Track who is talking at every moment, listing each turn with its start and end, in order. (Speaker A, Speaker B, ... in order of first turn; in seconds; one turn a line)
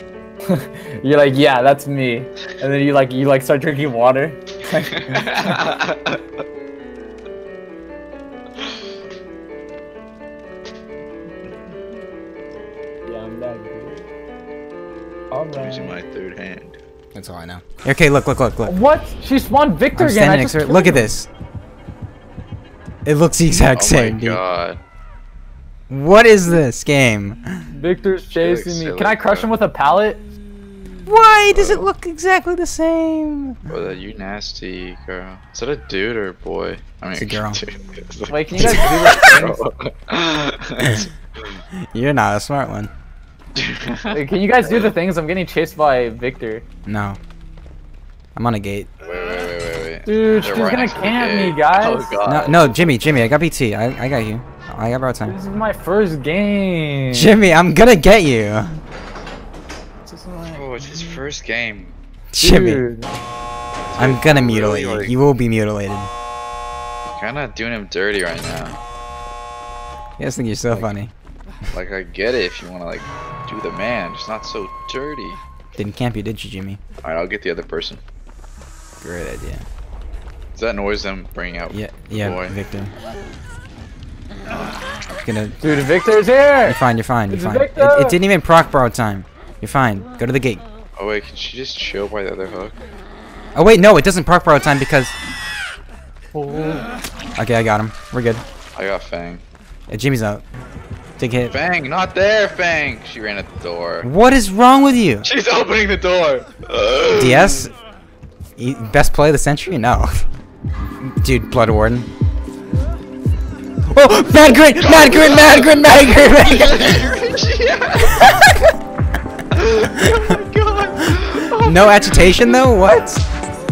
Speaker A: 0.5-5.6
Speaker B: 4.9-6.2
Speaker A: 13.1-14.1
Speaker A: 15.3-16.0
Speaker B: 15.6-16.8
Speaker C: 17.1-18.8
Speaker A: 18.7-21.1
Speaker C: 20.0-21.3
Speaker C: 23.1-24.4
Speaker B: 23.7-24.8
Speaker C: 25.9-27.6
Speaker A: 27.7-30.2
Speaker B: 28.4-29.5
Speaker C: 31.1-33.6
Speaker B: 31.5-31.9
Speaker B: 33.7-41.6
Speaker C: 37.1-37.6
Speaker A: 38.3-39.6
Speaker C: 38.6-38.9
Speaker C: 40.8-41.1
Speaker C: 41.9-42.9
Speaker B: 43.6-45.0
Speaker A: 44.1-46.6
Speaker C: 46.9-47.2
Speaker C: 48.4-48.9
Speaker B: 49.0-53.2
Speaker A: 50.1-52.2
Speaker C: 52.2-55.4
Speaker A: 55.3-57.4
Speaker C: 57.1-58.8
Speaker C: 60.1-61.2
Speaker B: 60.5-62.0
Speaker C: 62.3-62.9
Speaker A: 62.4-63.1
Speaker B: 63.9-65.2
Speaker C: 64.0-66.1
Speaker B: 67.1-68.8
Speaker C: 70.2-71.1
Speaker B: 71.7-75.4
Speaker C: 75.8-76.8
Speaker B: 77.0-78.0
Speaker C: 79.0-79.7
Speaker B: 80.5-82.5
Speaker C: 81.7-82.9
Speaker B: 84.5-84.8
Speaker C: 85.1-85.6
Speaker A: 85.6-88.2
Speaker C: 86.7-90.7
Speaker B: 91.0-92.8
Speaker C: 93.5-95.2
Speaker A: 96.3-96.9
Speaker C: 97.4-98.4
Speaker B: 98.8-99.4
Speaker C: 99.9-100.5
Speaker C: 101.2-101.5
Speaker B: 101.5-104.1
Speaker C: 104.0-105.3
Speaker B: 105.2-107.7
Speaker C: 107.1-107.7
Speaker C: 108.6-110.2
Speaker C: 111.0-112.1
Speaker C: 113.9-117.1
Speaker B: 114.7-118.3
Speaker C: 118.2-118.7
Speaker B: 119.5-122.4
Speaker C: 121.5-123.2